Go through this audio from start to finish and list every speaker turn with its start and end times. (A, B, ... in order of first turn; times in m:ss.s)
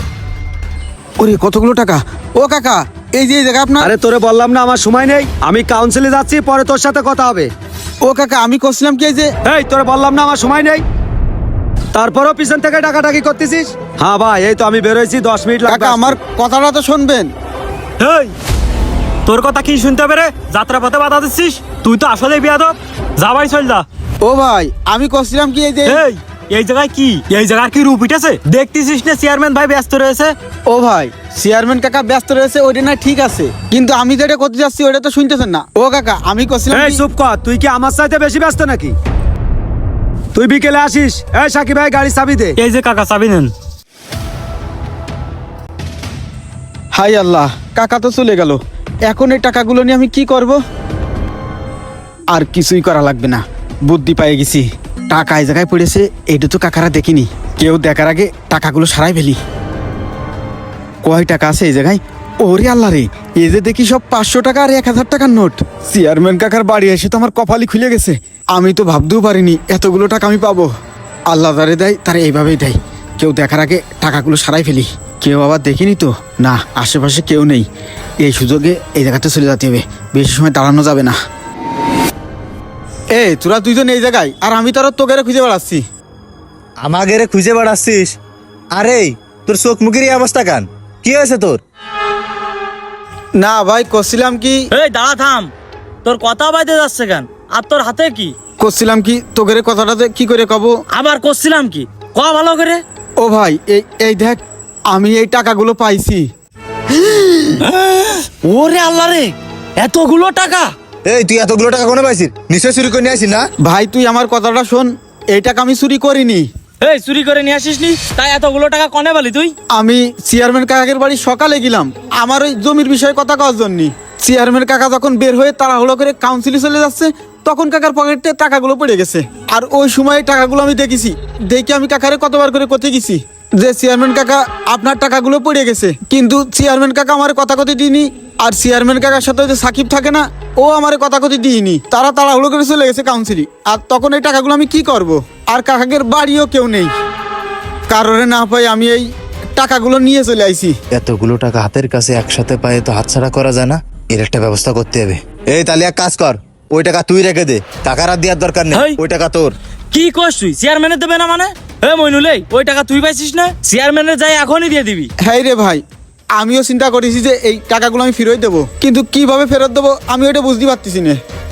0:01.2-0:03.9 A
0:03.8-0:07.5 B
0:08.0-0:09.3 A
0:09.4-0:10.8 B
0:11.9-0:16.2 B
0:15.7-0:17.3 A
0:18.0-0:18.3 C
0:19.3-0:23.8 C
0:24.2-0:26.0 A
0:25.9-0:30.4 C
0:30.7-0:37.0 A
0:36.7-0:39.0 B
0:40.3-0:42.6 B
0:42.6-0:43.5 C
0:46.9-0:50.6 A
0:52.3-0:59.4 A
1:01.0-1:10.7 A
1:11.3-1:17.7 A
1:18.2-1:21.2 A
1:23.1-1:25.8 A
1:26.8-1:28.2 D
1:28.7-1:31.6 D
1:33.4-1:34.7 A
1:34.7-1:35.5 E
1:36.0-1:38.3 E
1:38.6-1:40.8 A
1:40.9-1:42.8 E
1:43.2-1:44.4 A
1:44.9-1:46.2 A
1:46.9-1:47.6 A
1:47.7-1:50.7 E
1:51.0-1:53.4 D
1:53.6-1:56.4 A
1:56.8-1:59.6 E
1:59.7-2:26.9 A
2:27.9-2:29.0 A
2:29.6-2:30.8 A
2:30.9-2:39.5 D
2:38.7-2:39.0 E
2:39.9-2:45.1 E
2:45.2-2:45.8 A
2:46.4-2:51.2 A